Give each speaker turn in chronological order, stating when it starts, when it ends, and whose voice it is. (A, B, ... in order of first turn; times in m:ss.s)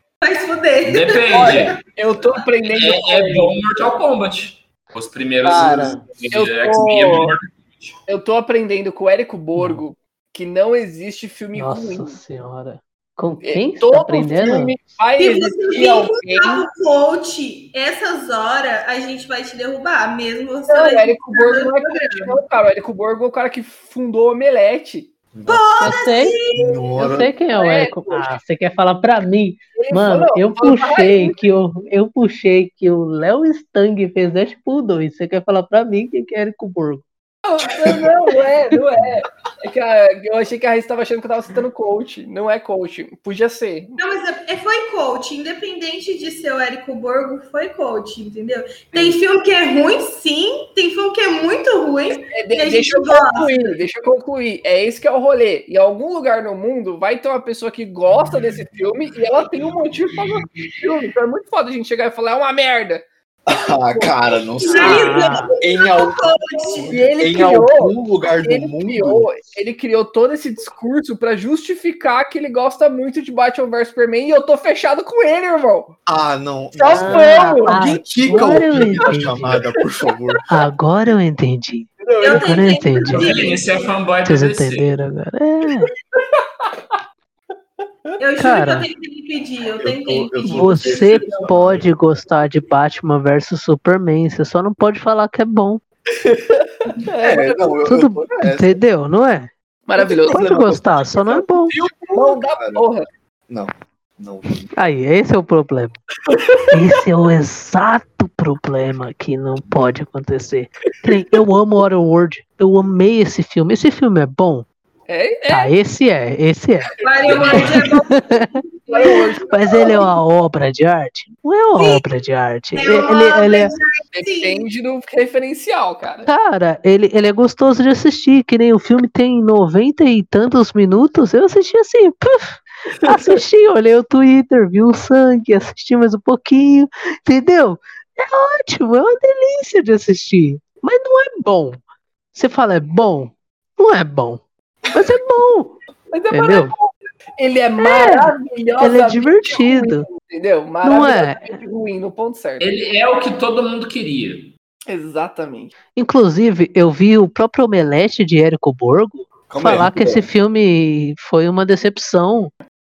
0:00.2-0:01.7 A
0:00.8-0:01.8 B
0:01.3-0:03.6 C
0:02.7-0:08.0 B
0:05.4-0:07.3 C
0:05.5-0:06.0 D
0:08.1-0:12.2 C
0:09.6-0:09.8 D
0:11.6-0:14.8 D
0:13.4-0:16.7 C
0:15.2-0:22.4 A
0:20.7-0:25.1 C
0:25.3-0:26.0 E
0:25.4-0:26.9 A
0:25.8-0:26.4 D
0:26.5-0:27.3 E
0:27.0-0:37.0 D
0:27.5-0:28.4 C
0:29.8-0:31.4 C
0:37.4-0:44.0 C
0:37.7-0:38.1 E
0:44.0-0:53.7 A
0:52.3-1:03.0 C
1:03.4-1:09.3 E
1:04.6-1:07.0 A
1:04.7-1:05.4 C
1:04.8-1:05.4 D
1:06.8-1:16.0 C
1:16.1-1:20.4 E
1:16.8-1:17.8 C
1:16.9-1:19.6 D
1:20.5-1:23.4 D
1:22.0-1:22.7 C
1:22.2-1:23.9 A
1:23.1-1:24.9 B
1:24.2-1:25.9 D
1:26.1-1:26.7 C
1:28.2-1:30.6 A
1:28.4-1:28.9 D
1:29.8-1:31.9 E
1:30.5-1:35.8 D
1:30.6-1:31.5 C
1:36.2-1:37.8 C
1:37.2-1:38.8 E
1:37.8-1:39.5 D
1:39.9-1:40.4 C
1:40.0-1:41.4 E
1:40.2-1:41.7 D
1:41.7-1:43.0 C
1:42.1-1:42.9 E
1:43.5-1:44.7 E
1:44.8-1:46.0 D
1:46.3-1:46.6 C
1:46.7-1:54.6 D
1:55.1-1:55.7 C
1:55.5-1:56.9 D
1:57.0-2:00.0 A
1:57.2-1:57.9 B
1:57.3-1:57.6 C
1:57.6-1:58.6 D
1:58.9-2:00.0 C
1:59.5-2:03.7 D
2:01.8-2:02.0 A
2:02.7-2:04.6 A
2:04.1-2:06.3 C
2:06.2-2:21.8 D
2:13.1-2:13.4 C
2:22.3-2:25.8 D
2:26.1-2:32.7 C
2:26.3-2:26.7 D
2:27.8-2:30.0 D
2:30.8-2:31.6 D
2:32.6-2:34.5 B
2:34.9-2:35.7 C
2:36.0-2:42.5 D
2:39.5-2:40.3 E